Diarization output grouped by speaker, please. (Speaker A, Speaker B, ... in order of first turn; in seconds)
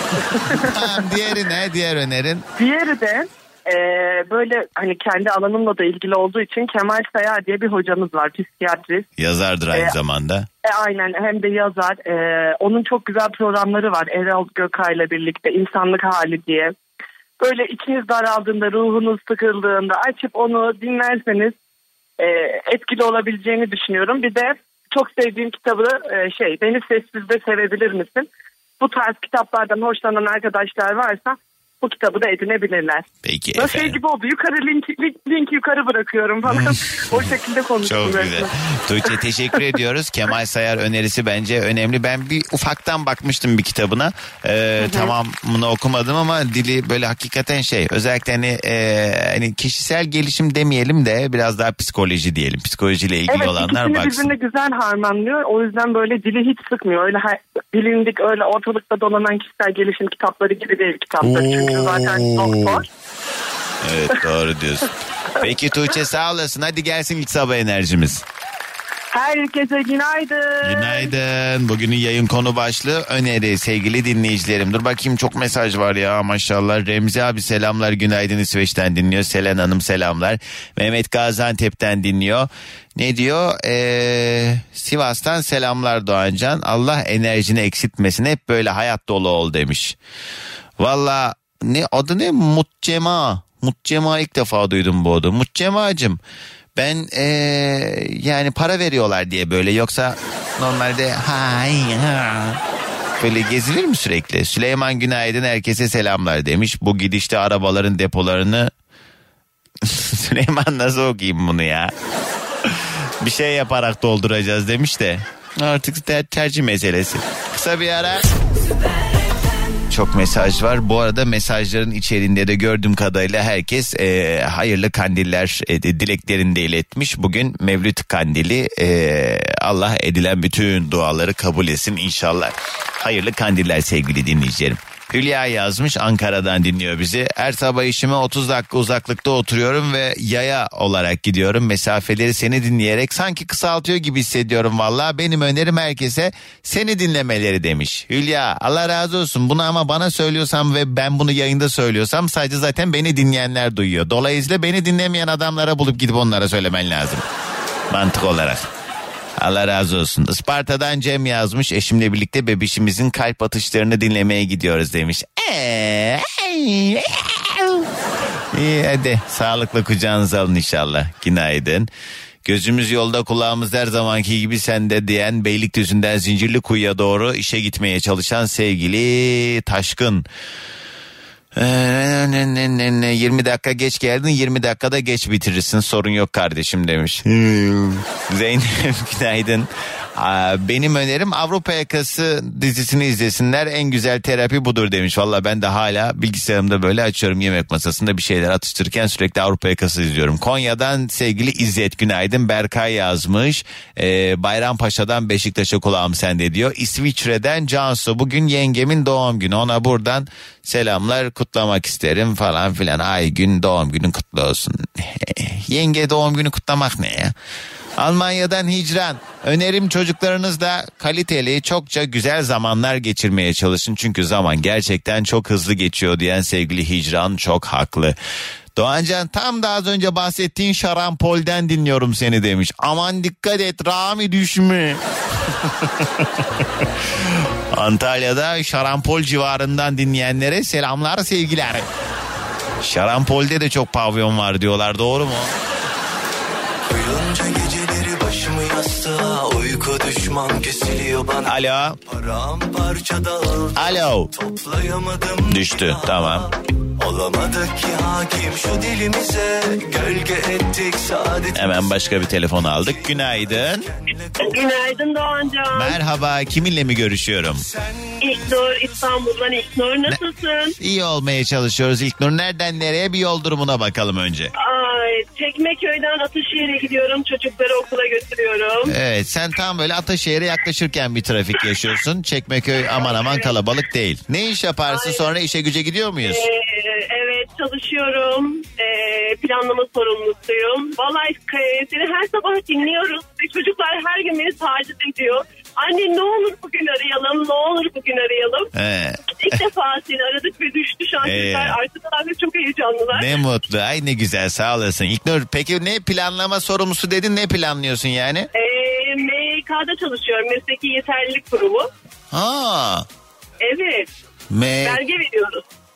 Speaker A: 0.2-1.0, 2.6-9.1, 10.7-16.7, 17.4-21.6, 22.2-28.3, 28.8-38.5, 44.8-45.1, 53.3-62.9, 69.1-71.1
Speaker B: 0.5-2.5, 9.2-10.5, 33.2-34.0, 36.5-37.3, 37.8-54.3, 61.2-62.8, 63.8-64.9, 65.4-68.2, 70.6-90.0, 90.8-96.2, 96.8-102.6, 103.2-108.7, 109.8-111.9, 112.7-118.3, 119.9-157.2, 157.9-158.7, 159.4-167.9, 168.5-171.9, 172.4-180.3, 181.6-217.3, 218.0-228.2, 228.8-235.0, 235.6-241.9, 242.8-245.5, 251.5-252.0, 253.8-254.3, 255.5-256.5, 261.6-263.9, 265.7-267.6, 270.8-274.5, 278.9-286.4, 298.8-299.2, 301.2-301.8, 303.1-308.5, 312.3-313.1, 314.5-315.0
Speaker C: 246.9-251.6, 252.1-261.9, 262.8-264.8, 267.7-268.9
Speaker D: 264.4-266.0, 268.2-270.8, 274.6-278.9, 283.0-283.5, 284.9-285.2, 286.2-298.7, 299.4-303.3, 308.5-311.9, 313.6-314.1, 314.8-315.6